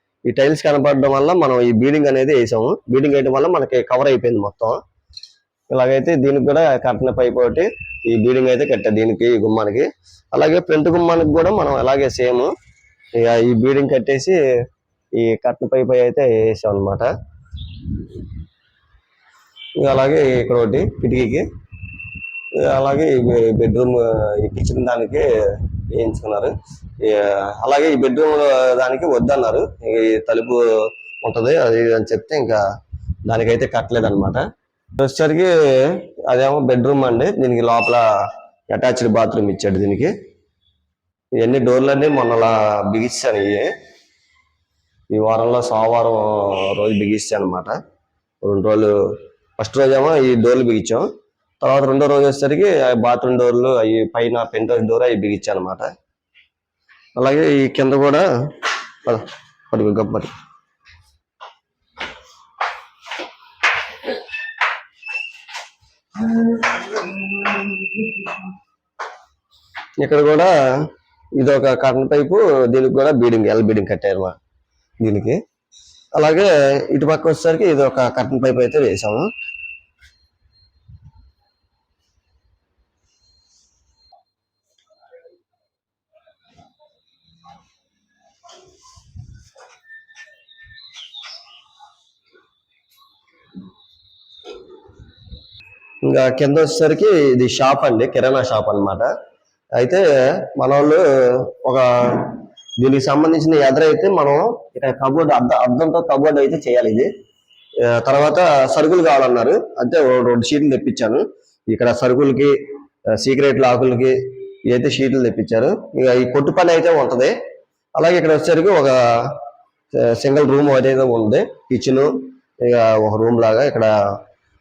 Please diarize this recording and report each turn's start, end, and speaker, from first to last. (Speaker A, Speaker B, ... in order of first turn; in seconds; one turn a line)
Speaker A: 0.3-4.8
Speaker A: 5.7-12.5
Speaker A: 13.2-14.4
Speaker A: 15.2-17.1
Speaker A: 19.8-21.5
Speaker A: 22.6-30.6
Speaker A: 31.2-32.6
Speaker A: 33.3-34.5
Speaker A: 35.0-38.1
Speaker A: 38.7-40.1
Speaker A: 41.4-43.7
Speaker A: 45.1-47.8
Speaker A: 48.4-48.9
Speaker A: 49.6-51.1
Speaker A: 51.6-55.9
Speaker A: 57.2-60.3
Speaker A: 66.2-68.4
Speaker A: 70.0-70.5
Speaker A: 71.4-74.4
Speaker A: 75.0-75.4
Speaker A: 76.2-79.3
Speaker A: 96.0-99.1
Speaker A: 99.8-107.1
Speaker A: 107.8-112.5
Speaker A: 113.2-114.2
Speaker A: 114.7-117.3
Speaker A: 118.0-119.4
Speaker A: 120.0-122.1
Speaker A: 122.6-123.9